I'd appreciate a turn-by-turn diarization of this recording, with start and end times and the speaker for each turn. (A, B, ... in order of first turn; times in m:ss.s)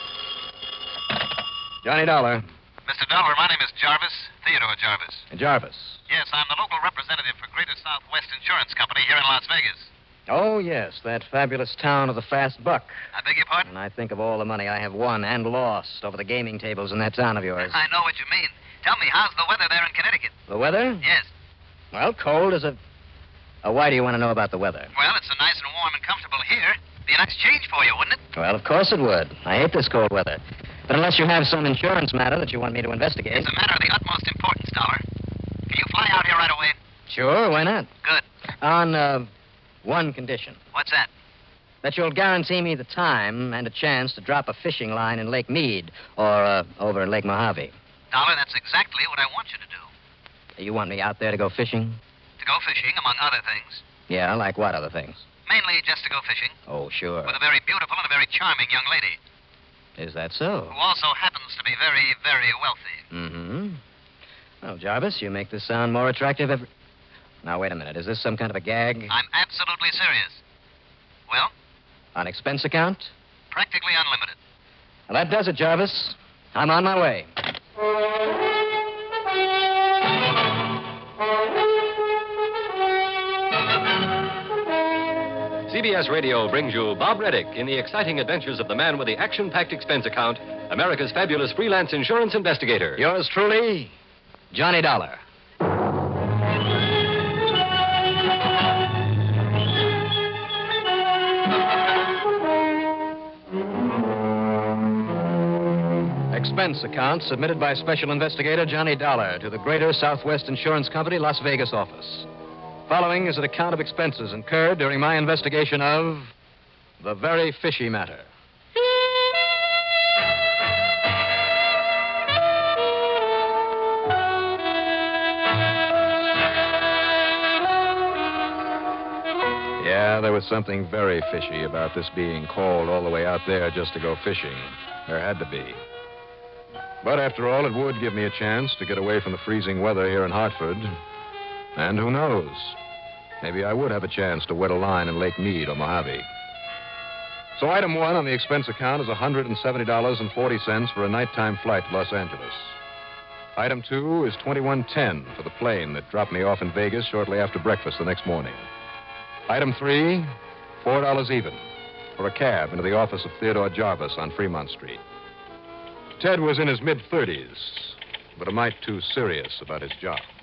0:01.8-0:02.5 A
0:02.9-0:05.3 B
0:05.3-0:06.0 C
0:06.1-0:09.9 B
0:10.3-0:13.1 C
0:13.1-0:13.7 B
0:13.7-0:17.8 C
0:17.6-0:20.4 B
0:20.5-0:21.0 C
0:21.0-0:21.3 B
0:21.9-0:22.8 C
0:23.6-0:24.9 C
0:25.0-0:28.2 B
0:28.3-0:33.5 C
0:33.4-0:35.0 B
0:35.7-0:36.8 B
0:37.1-0:37.9 C
0:38.6-0:39.3 C
0:39.8-0:40.6 C
0:40.7-0:41.1 B
0:41.8-0:47.7 C
0:48.1-0:49.9 B
0:50.6-0:52.0 C
0:52.4-0:53.9 B
0:54.1-0:55.3 C
0:55.5-0:56.6 B
0:56.7-0:57.4 C
0:57.2-0:59.2 B
1:00.0-1:00.8 C
1:00.7-1:03.0 B
1:03.1-1:03.8 C
1:04.6-1:06.7 C
1:07.4-1:09.1 C
1:09.1-1:10.4 B
1:12.2-1:13.1 C
1:13.5-1:14.4 B
1:15.1-1:17.3 C
1:25.7-1:33.0 D
1:33.0-1:33.9 C
1:34.5-1:35.2 C
1:46.3-1:52.3 C
1:52.9-1:56.3 C
1:57.0-1:58.3 C
2:09.8-2:15.8 A
2:17.0-2:21.0 A
2:21.8-2:22.8 A
2:23.4-2:26.3 A
2:27.6-2:32.8 A
2:33.6-2:38.7 A
2:39.5-2:41.6 A
2:42.2-2:45.0 A
2:46.2-2:50.3 A